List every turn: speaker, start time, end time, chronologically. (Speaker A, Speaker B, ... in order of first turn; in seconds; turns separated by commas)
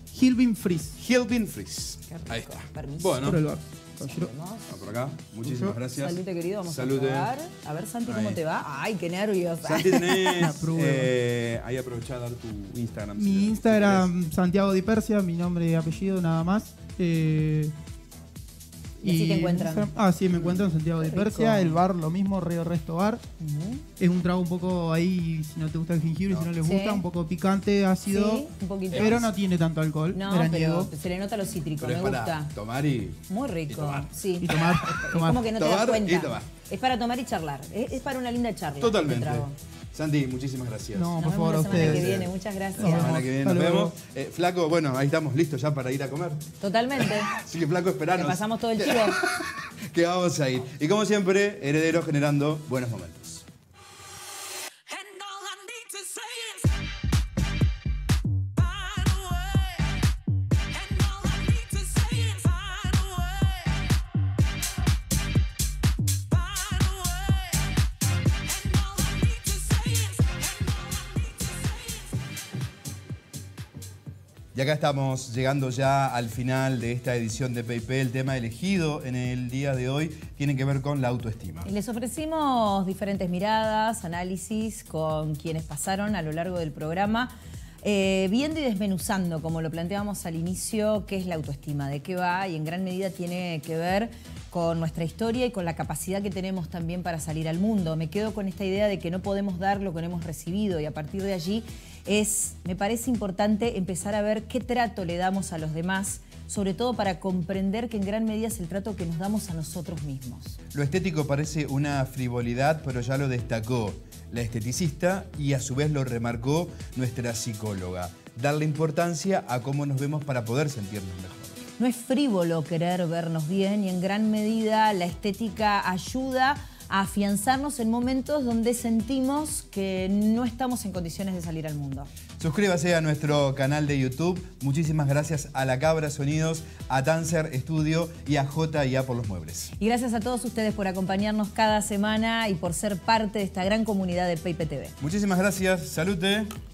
Speaker A: 0.1-1.0, Speaker B: 1.0-3.4, Speaker C: 2.1-3.4, Speaker A: 3.2-4.3, Speaker C: 4.0-4.9, Speaker B: 4.7-7.3, Speaker A: 5.4-5.8, Speaker C: 5.9-10.6, Speaker B: 8.1-8.4, Speaker B: 9.6-14.1, Speaker A: 10.4-11.1, Speaker A: 13.2-17.7, Speaker A: 19.0-23.2, Speaker C: 19.0-21.8, Speaker C: 23.4-23.8, Speaker A: 24.0-30.9, Speaker C: 26.6-27.1, Speaker C: 28.1-29.3, Speaker B: 28.9-29.2, Speaker C: 30.1-32.5, Speaker B: 31.8-34.1, Speaker C: 33.3-39.5, Speaker A: 34.4-35.5, Speaker B: 35.5-36.5, Speaker B: 38.8-53.4, Speaker A: 40.9-42.2, Speaker C: 41.2-43.2, Speaker A: 42.8-43.9, Speaker C: 46.6-47.3, Speaker C: 48.1-49.2, Speaker B: 74.5-81.7, Speaker C: 81.6-110.6, Speaker B: 110.7-121.7, Speaker C: 121.8-132.1, Speaker B: 132.4-139.7, Speaker C: 139.8-144.9, Speaker B: 145.0-146.5